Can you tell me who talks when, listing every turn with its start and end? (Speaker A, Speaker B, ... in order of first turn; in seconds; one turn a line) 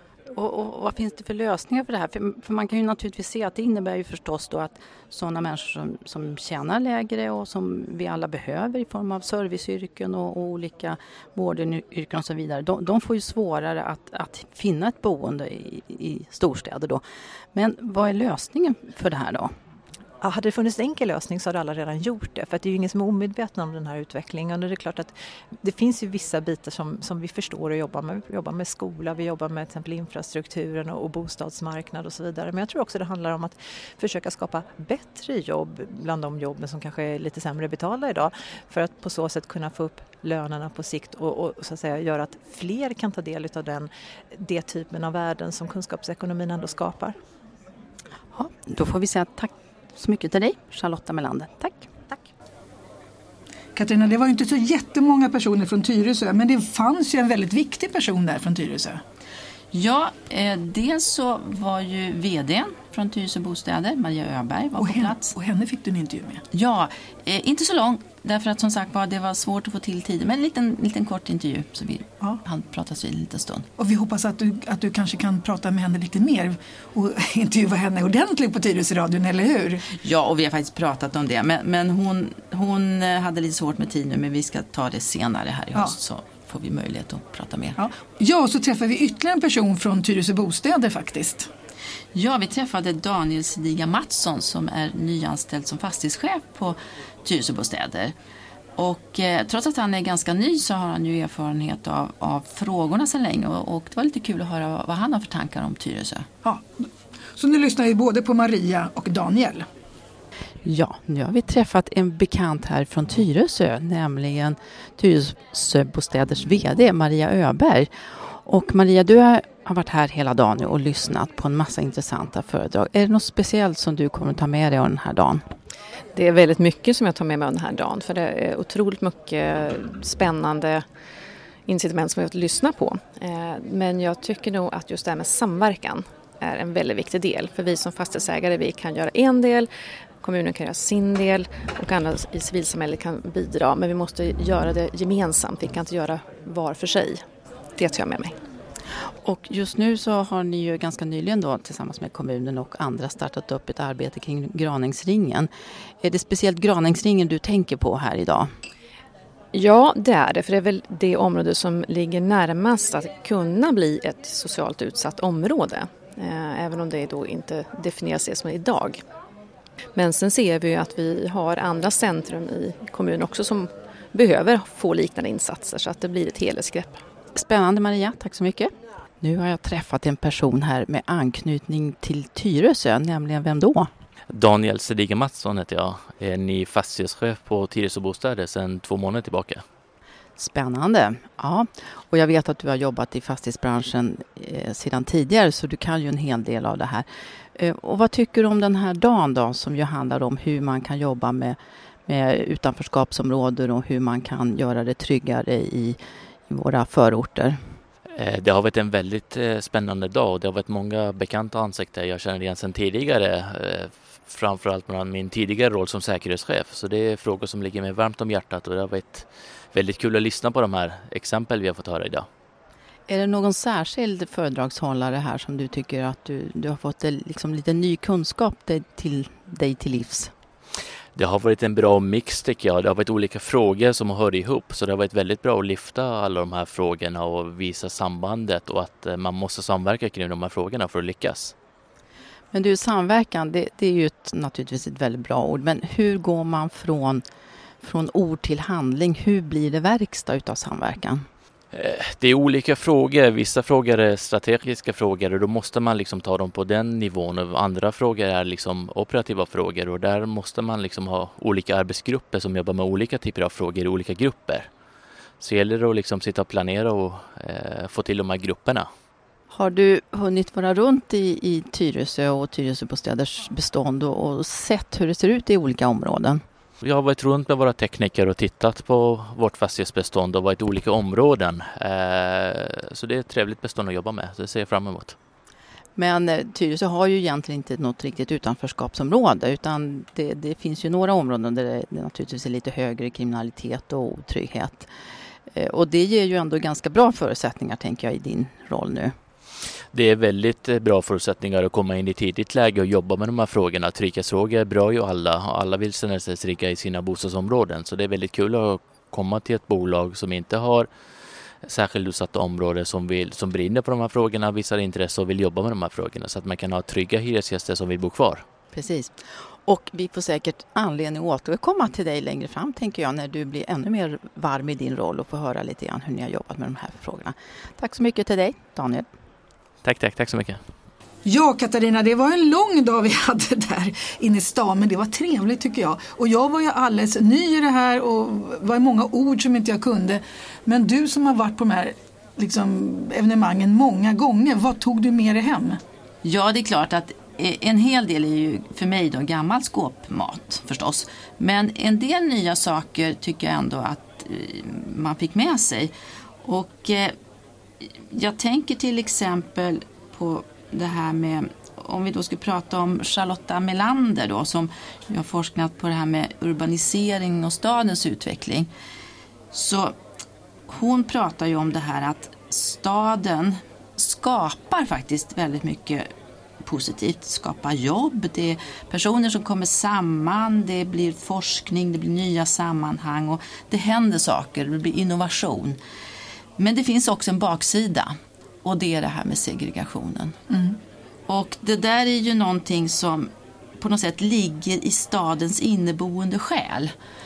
Speaker A: 0.3-17.0
Speaker A: 17.5-19.5
Speaker B: 20.2-47.1
Speaker A: 48.3-51.9
Speaker C: 53.8-59.0
Speaker A: 59.7-65.3
Speaker C: 64.8-66.4
Speaker A: 66.5-73.7
Speaker C: 73.8-79.8
Speaker A: 80.0-87.8
Speaker C: 87.8-91.5
Speaker A: 92.1-98.1
Speaker A: 98.8-106.3
Speaker C: 106.4-109.7
Speaker A: 110.6-117.9
Speaker A: 118.5-125.4
Speaker D: 126.1-130.8
Speaker D: 131.7-139.7
Speaker D: 140.2-147.2
Speaker D: 147.8-148.3
Speaker A: 149.2-155.5
Speaker A: 156.0-158.5
Speaker D: 159.5-169.0
Speaker D: 169.9-177.0
Speaker A: 177.3-183.9
Speaker E: 184.3-189.6
Speaker A: 190.4-206.0
Speaker A: 206.5-207.6
Speaker E: 208.2-222.2
Speaker A: 223.1-230.3
Speaker E: 231.2-241.5
Speaker A: 242.5-247.2
Speaker A: 247.8-251.2
Speaker E: 251.7-264.7
Speaker E: 265.4-268.9
Speaker A: 269.5-276.4
Speaker E: 276.8-285.1
Speaker A: 285.9-294.9
Speaker A: 295.5-299.1
Speaker E: 299.9-310.9
Speaker E: 311.6-318.4
Speaker A: 318.7-329.1
Speaker E: 329.8-330.6
Speaker C: 331.2-345.8
Speaker A: 346.2-355.9
Speaker A: 356.4-357.1
Speaker A: 357.8-368.7
Speaker A: 369.5-369.9
Speaker A: 370.7-376.1
Speaker A: 376.6-385.8
Speaker A: 386.6-390.3
Speaker C: 390.5-390.8
Speaker A: 391.3-396.9